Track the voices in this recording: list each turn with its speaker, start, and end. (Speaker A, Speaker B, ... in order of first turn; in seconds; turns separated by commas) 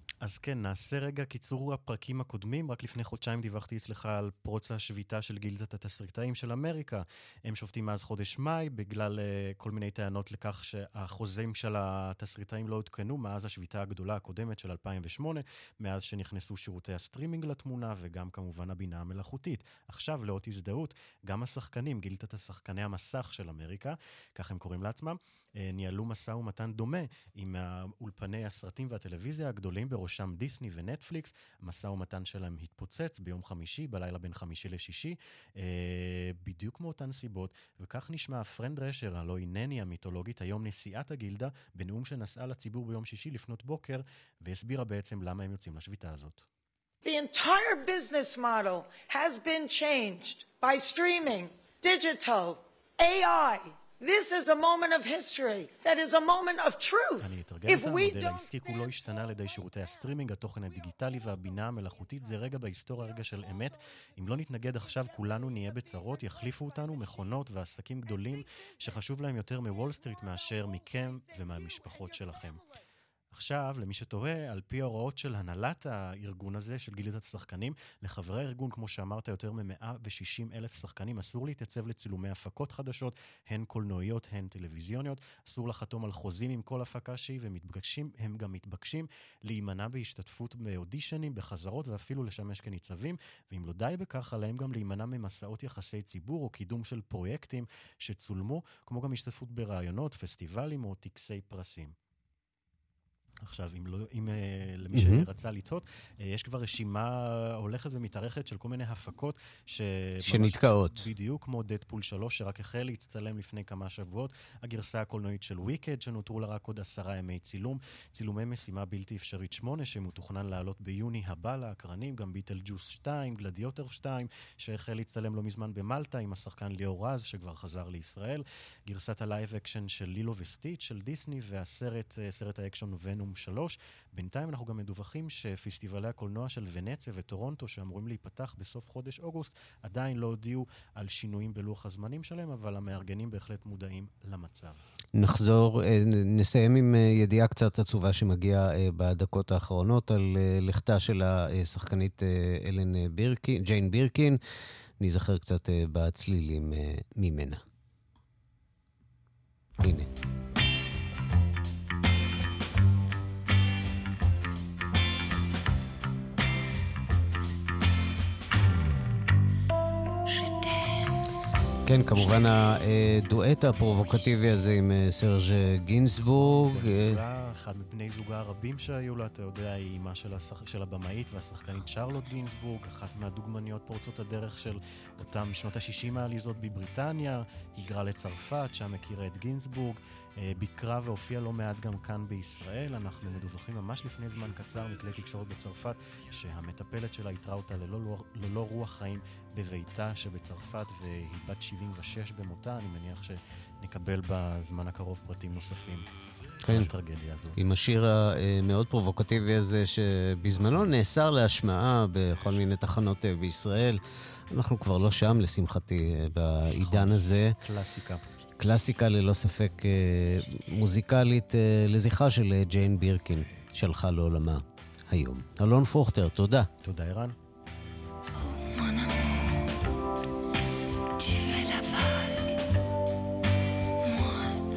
Speaker A: 0.2-46.5, Speaker B: 47.0-58.5, Speaker A: 57.2-72.6, Speaker A: 73.3-101.9, Speaker A: 103.4-144.8, Speaker C: 104.9-105.2, Speaker C: 110.2-111.1, Speaker C: 145.2-154.4, Speaker C: 155.0-157.6, Speaker C: 159.8-160.1, Speaker D: 170.2-171.2, Speaker C: 171.8-177.2, Speaker D: 172.2-172.7, Speaker D: 174.1-174.4, Speaker A: 176.2-206.1, Speaker C: 206.7-206.9, Speaker A: 206.7-207.6, Speaker C: 207.6-217.6, Speaker A: 216.8-218.2, Speaker C: 218.6-226.7, Speaker A: 226.8-227.3, Speaker D: 228.3-229.7, Speaker D: 231.2-232.6, Speaker D: 234.0-234.6